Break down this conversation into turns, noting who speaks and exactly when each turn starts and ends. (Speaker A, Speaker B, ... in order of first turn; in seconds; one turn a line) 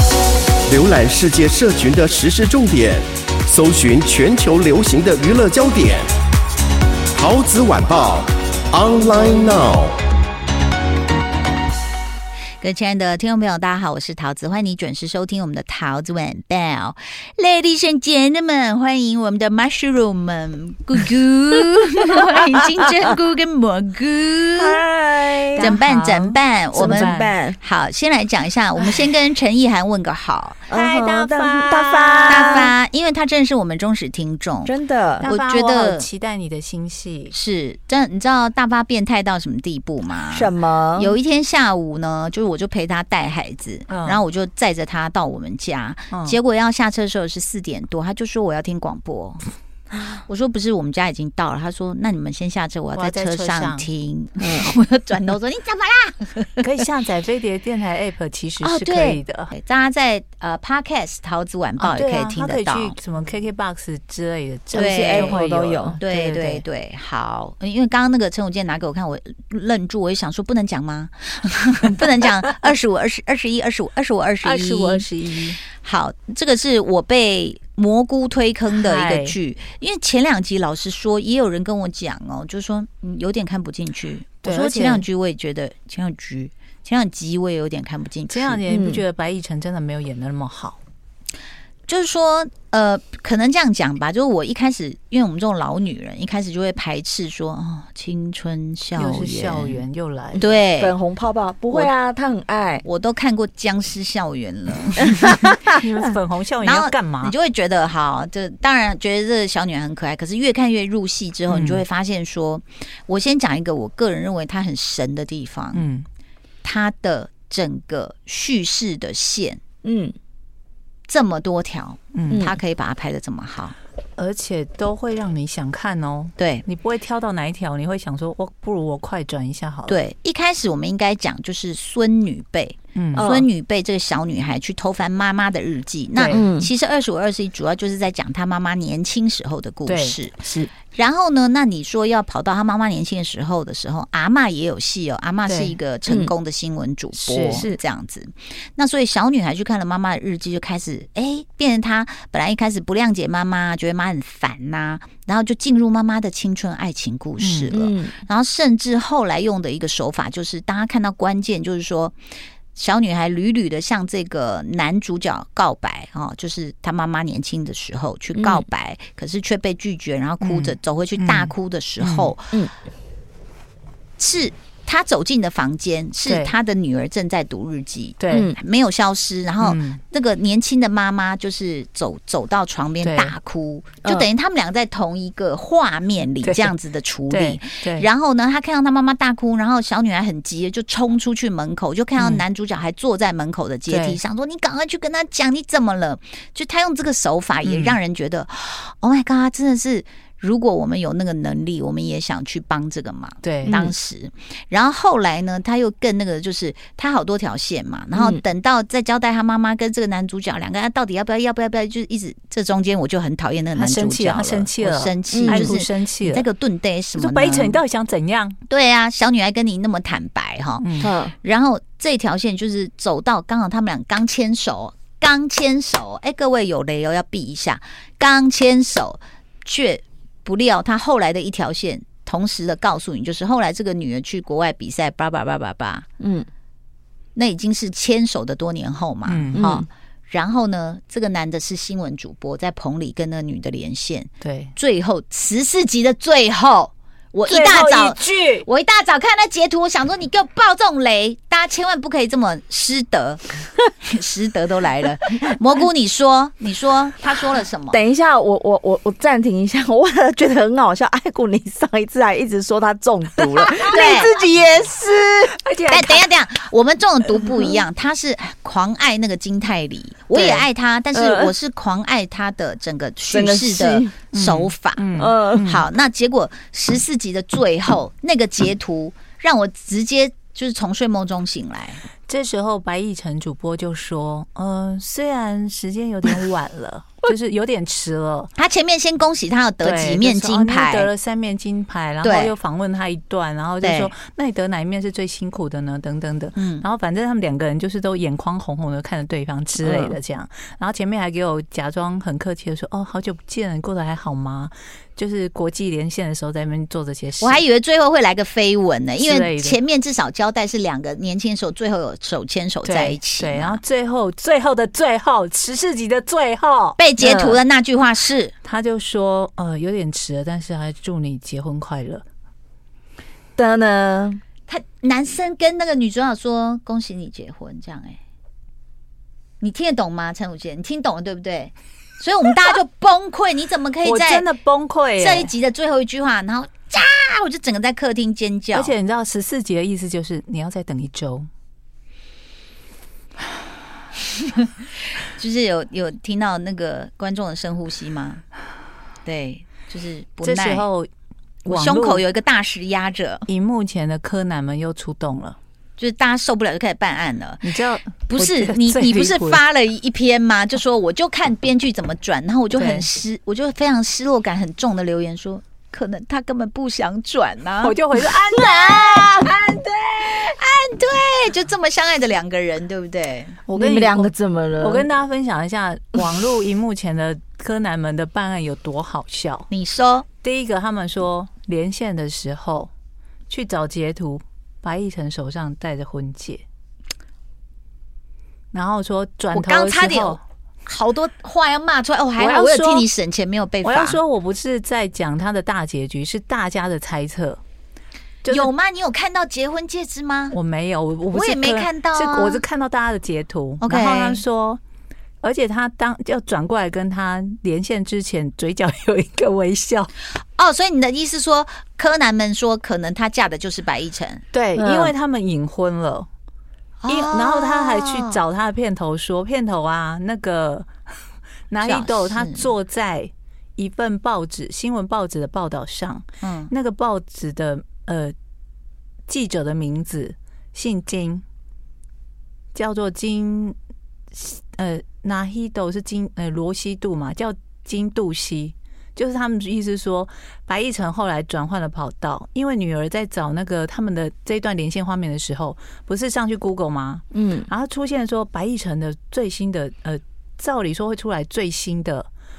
Speaker A: 0.7-6.1
Speaker A: 7.1-10.0
Speaker B: 12.6-24.8
Speaker C: 24.6-25.7
Speaker D: 25.6-27.4
Speaker B: 25.6-30.7
Speaker C: 26.8-27.6
Speaker D: 28.8-29.1
Speaker C: 30.7-32.7
Speaker D: 30.7-32.7
Speaker B: 32.3-36.1
Speaker C: 34.6-35.3
Speaker D: 35.2-37.3
Speaker B: 37.3-49.4
Speaker C: 40.3-41.2
Speaker D: 43.9-44.2
Speaker D: 46.1-46.4
Speaker B: 50.0-56.7
Speaker D: 52.9-53.9
Speaker C: 54.4-54.7
Speaker D: 56.6-59.5
Speaker B: 58.6-63.0
Speaker D: 61.8-66.6
Speaker C: 64.7-66.0
Speaker B: 64.8-65.4
Speaker B: 66.0-75.1
Speaker D: 74.4-75.6
Speaker B: 75.6-88.6
Speaker D: 78.7-79.4
Speaker D: 84.4-85.0
Speaker D: 88.3-90.8
Speaker C: 88.7-89.0
Speaker B: 91.9-99.8
Speaker D: 99.0-100.4
Speaker C: 100.4-102.8
Speaker B: 100.4-100.9
Speaker B: 102.8-105.6
Speaker D: 105.3-107.3
Speaker B: 106.6-115.9
Speaker D: 111.5-111.8
Speaker D: 115.7-116.1
Speaker B: 116.6-119.6
Speaker C: 119.8-120.1
Speaker B: 121.1-123.8
Speaker D: 122.1-122.5
Speaker C: 122.3-122.6
Speaker D: 124.2-130.0
Speaker B: 126.4-126.7
Speaker B: 129.9-162.2
Speaker D: 132.9-133.3
Speaker C: 133.2-133.5
Speaker D: 136.2-136.4
Speaker C: 136.3-136.7
Speaker D: 139.9-140.7
Speaker D: 145.5-145.8
Speaker C: 146.1-146.3
Speaker D: 147.2-147.8
Speaker D: 157.4-157.7
Speaker C: 157.7-158.2
Speaker B: 162.7-172.6
Speaker C: 168.3-168.7
Speaker D: 170.4-172.3
Speaker B: 174.2-217.8
Speaker D: 176.3-176.5
Speaker D: 178.2-178.5
Speaker C: 178.3-178.6
Speaker D: 179.6-180.0
Speaker D: 183.0-183.3
Speaker D: 186.4-186.8
Speaker D: 187.3-188.1
Speaker D: 192.2-192.4
Speaker D: 193.9-194.2
Speaker D: 197.6-198.0
Speaker D: 203.4-203.9
Speaker C: 203.7-203.9
Speaker C: 208.2-208.4
Speaker D: 213.8-216.5
Speaker C: 215.3-215.7
Speaker D: 217.2-218.6
Speaker B: 218.7-236.1
Speaker D: 220.8-221.1
Speaker C: 221.0-221.3
Speaker C: 236.2-236.5
Speaker B: 237.3-258.0
Speaker D: 239.3-239.7
Speaker C: 239.6-239.9
Speaker D: 244.4-244.7
Speaker D: 247.5-248.7
Speaker C: 257.9-265.6
Speaker B: 263.9-264.3
Speaker D: 263.9-264.3
Speaker D: 265.5-266.3
Speaker B: 265.9-275.1
Speaker D: 270.3-270.6
Speaker C: 271.1-271.5
Speaker C: 273.3-274.2
Speaker D: 274.3-275.9
Speaker C: 275.2-275.6
Speaker B: 275.6-282.0
Speaker D: 282.3-288.5
Speaker B: 288.6-291.1
Speaker D: 289.8-307.6
Speaker B: 292.2-292.5
Speaker B: 293.8-294.1
Speaker B: 296.6-296.9
Speaker C: 299.8-300.2
Speaker B: 307.4-313.8
Speaker D: 309.2-309.8
Speaker D: 312.8-317.0
Speaker B: 317.0-318.5
Speaker C: 317.2-317.6
Speaker D: 318.6-322.2
Speaker C: 323.6-324.4
Speaker B: 324.7-328.2
Speaker B: 329.6-334.5
Speaker D: 334.0-335.5
Speaker B: 335.2-338.9
Speaker D: 338.7-341.5
Speaker B: 345.3-348.4
Speaker B: 349.2-350.9
Speaker D: 350.4-351.1
Speaker D: 351.6-352.2
Speaker B: 351.7-353.5
Speaker D: 353.5-355.6
Speaker B: 356.0-357.6
Speaker D: 357.6-359.6
Speaker B: 358.3-368.0
Speaker D: 362.8-363.1
Speaker D: 367.8-370.0
Speaker B: 368.5-373.6
Speaker D: 373.7-379.7
Speaker C: 373.7-375.1
Speaker B: 379.7-380.3
Speaker D: 380.4-382.9
Speaker D: 383.5-386.6
Speaker D: 388.7-390.4
Speaker B: 389.5-394.2
Speaker D: 392.4-393.1
Speaker D: 393.8-397.6
Speaker D: 398.4-398.7
Speaker B: 398.5-400.6
Speaker D: 400.5-404.8
Speaker B: 401.3-402.6
Speaker B: 403.8-404.4
Speaker D: 405.4-410.1
Speaker B: 410.4-414.4
Speaker D: 414.5-416.3
Speaker C: 414.8-415.1
Speaker B: 417.0-418.4
Speaker D: 417.1-420.9
Speaker D: 421.7-428.4
Speaker B: 421.8-422.7
Speaker B: 426.4-426.7
Speaker D: 429.3-431.4
Speaker D: 432.7-433.8
Speaker D: 434.3-452.3
Speaker C: 447.3-447.7